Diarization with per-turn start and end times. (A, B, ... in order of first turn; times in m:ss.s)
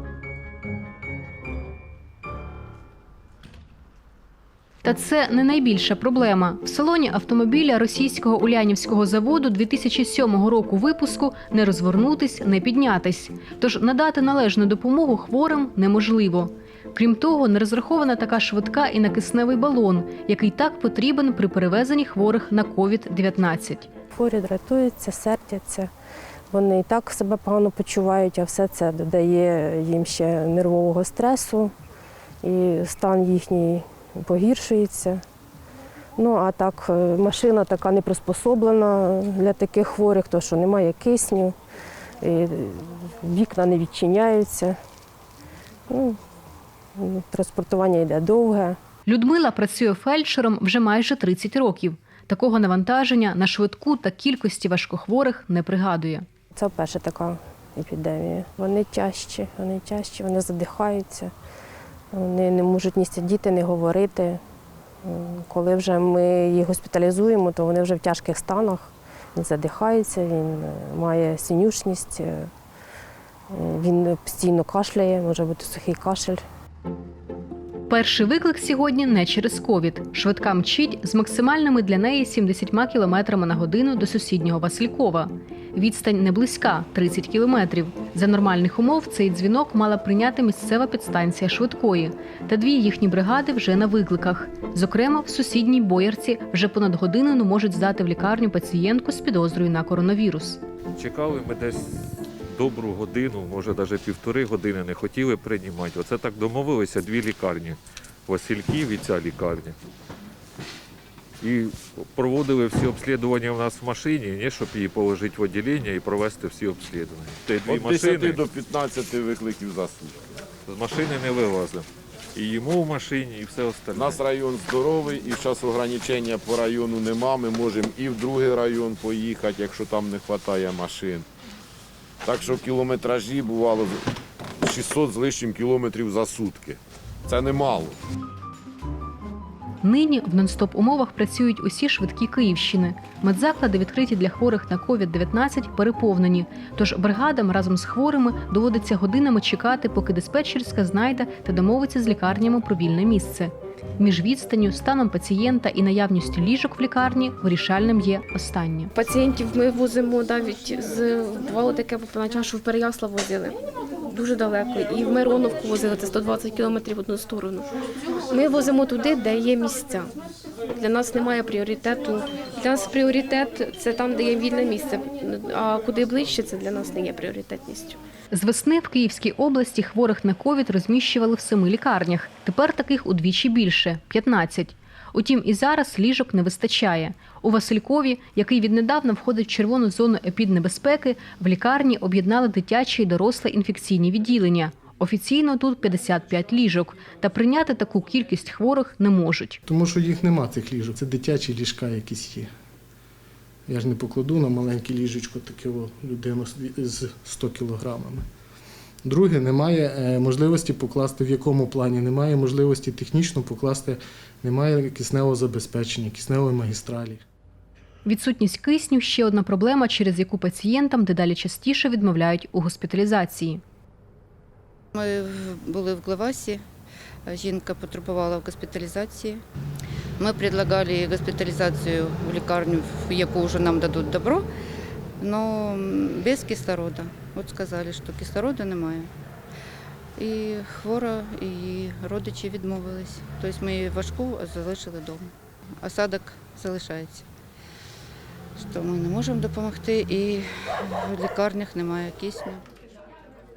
0:04.8-0:23.9 A
0:24.1-0:25.9 B
0:26.5-0:31.7 B
0:32.4-0:35.2 B
0:36.2-0:41.5 B
0:42.2-0:44.8 B
0:45.9-0:46.2 B
0:47.0-0:48.8 B
0:49.0-0:56.2 A
0:56.5-1:01.3 B
1:02.1-1:04.4 B
1:05.0-1:12.5 B
1:13.5-1:16.4 B
1:17.9-1:40.6 A
1:41.0-1:49.8 C
1:51.4-1:58.4 C
1:57.6-2:00.2 D
2:00.6-2:04.2 C
2:03.9-2:11.3 D
2:12.2-2:18.0 D
2:19.8-2:38.9 A
2:39.0-2:43.6 E
2:44.1-2:47.6 E
2:48.3-2:50.1 E
2:50.7-2:58.0 E
2:58.3-3:19.6 A
3:19.7-3:22.5 F
3:23.7-3:28.2 F
3:29.0-3:37.2 F
3:38.0-3:43.6 A
3:44.9-3:46.6 G
3:47.2-3:49.4 G
3:50.2-3:54.5 G
3:55.2-3:59.1 G
4:00.2-4:07.2 G
4:08.6-4:12.6 G